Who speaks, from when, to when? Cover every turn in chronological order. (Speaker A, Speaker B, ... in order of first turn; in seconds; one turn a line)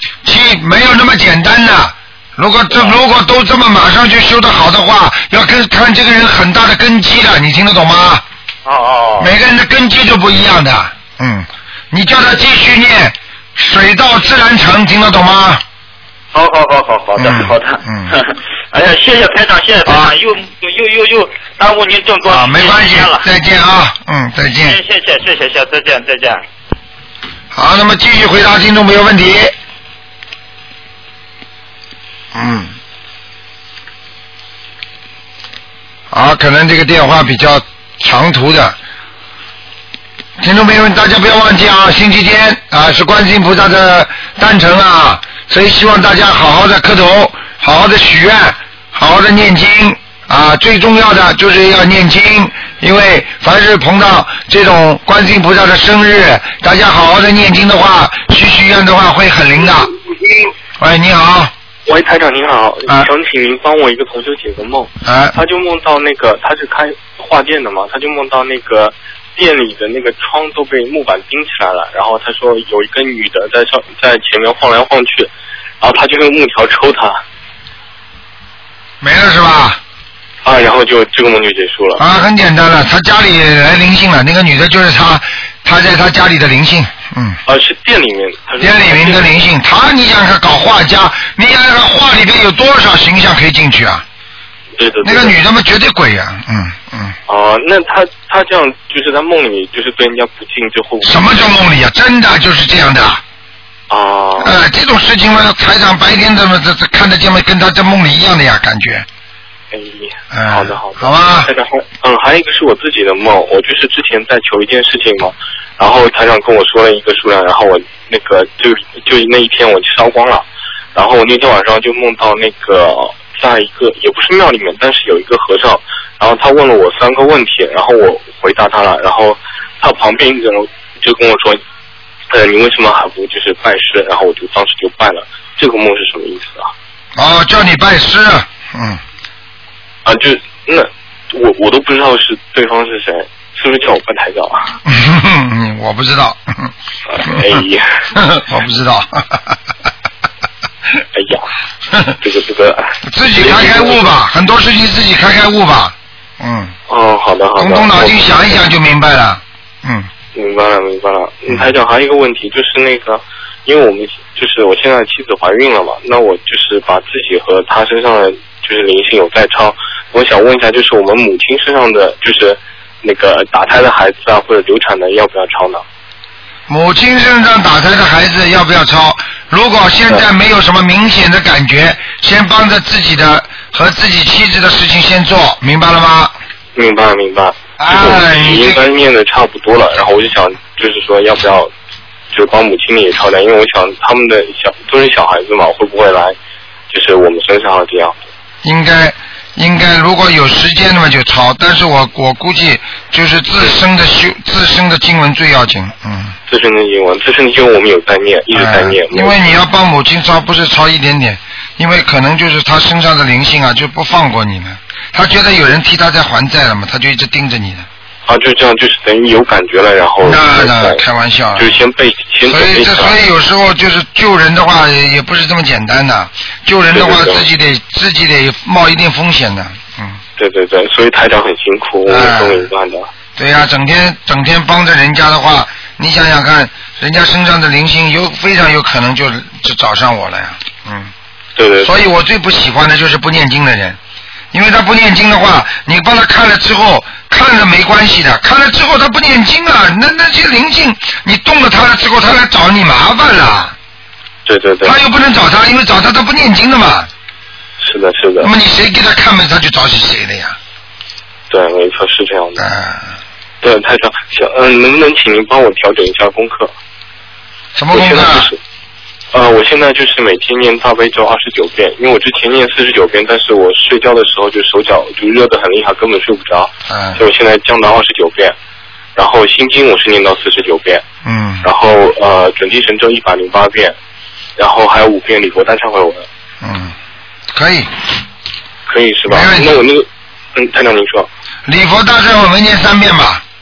Speaker A: 0.2-8.2
Speaker B: 2.7-3.0
Speaker B: 8.7-9.3
Speaker A: 9.2-15.6
Speaker B: 16.3-23.3
Speaker A: 17.2-18.1
Speaker A: 19.9-20.1
Speaker A: 22.3-24.8
Speaker B: 24.6-26.4
Speaker A: 27.5-29.5
Speaker A: 32.3-32.7
Speaker A: 36.1-38.8
Speaker A: 40.4-59.9
Speaker A: 60.8-61.5
Speaker C: 61.9-75.3
Speaker A: 65.0-65.4
Speaker C: 75.8-77.2
Speaker A: 79.0-79.8
Speaker C: 80.4-82.0
Speaker A: 82.0-87.4
Speaker C: 87.5-89.3
Speaker A: 88.6-94.0
Speaker C: 94.8-95.4
Speaker A: 95.0-97.2
Speaker C: 97.3-101.4
Speaker A: 101.0-103.2
Speaker C: 103.9-104.6
Speaker A: 104.4-109.1
Speaker C: 109.7-131.6
Speaker A: 110.3-111.5
Speaker C: 132.3-136.7
Speaker A: 137.2-139.0
Speaker C: 140.1-144.8
Speaker A: 144.9-146.7
Speaker C: 147.1-147.9
Speaker A: 147.3-147.6
Speaker A: 148.2-149.6
Speaker C: 151.1-151.5
Speaker A: 151.9-152.2
Speaker C: 152.2-154.1
Speaker A: 153.0-156.7
Speaker C: 156.9-158.6
Speaker A: 157.6-160.1
Speaker C: 160.3-175.8
Speaker A: 176.7-186.3
Speaker C: 186.8-191.7
Speaker A: 187.8-188.8
Speaker C: 192.3-196.4
Speaker C: 196.9-198.2
Speaker A: 198.6-206.3
Speaker C: 206.5-209.5
Speaker A: 208.5-217.9
Speaker C: 218.3-221.0
Speaker A: 220.2-221.8
Speaker C: 221.6-223.2
Speaker A: 222.5-230.2
Speaker C: 226.9-227.5
Speaker C: 230.4-233.1
Speaker A: 232.1-232.7
Speaker A: 233.4-241.1
Speaker C: 241.6-241.9
Speaker A: 241.8-244.0
Speaker A: 244.5-253.8
Speaker C: 254.5-255.0
Speaker A: 254.8-257.1
Speaker C: 257.8-258.5
Speaker A: 258.4-260.6
Speaker C: 261.5-262.6
Speaker A: 262.6-263.1
Speaker C: 263.6-266.7
Speaker A: 267.8-268.5
Speaker C: 267.9-268.6
Speaker C: 269.3-278.6
Speaker A: 276.9-277.2
Speaker C: 279.2-281.0
Speaker A: 281.2-281.7
Speaker C: 281.6-283.9
Speaker C: 284.6-286.3
Speaker A: 286.6-286.9
Speaker A: 287.5-287.9
Speaker C: 288.9-291.3
Speaker A: 289.3-289.8
Speaker A: 291.7-293.4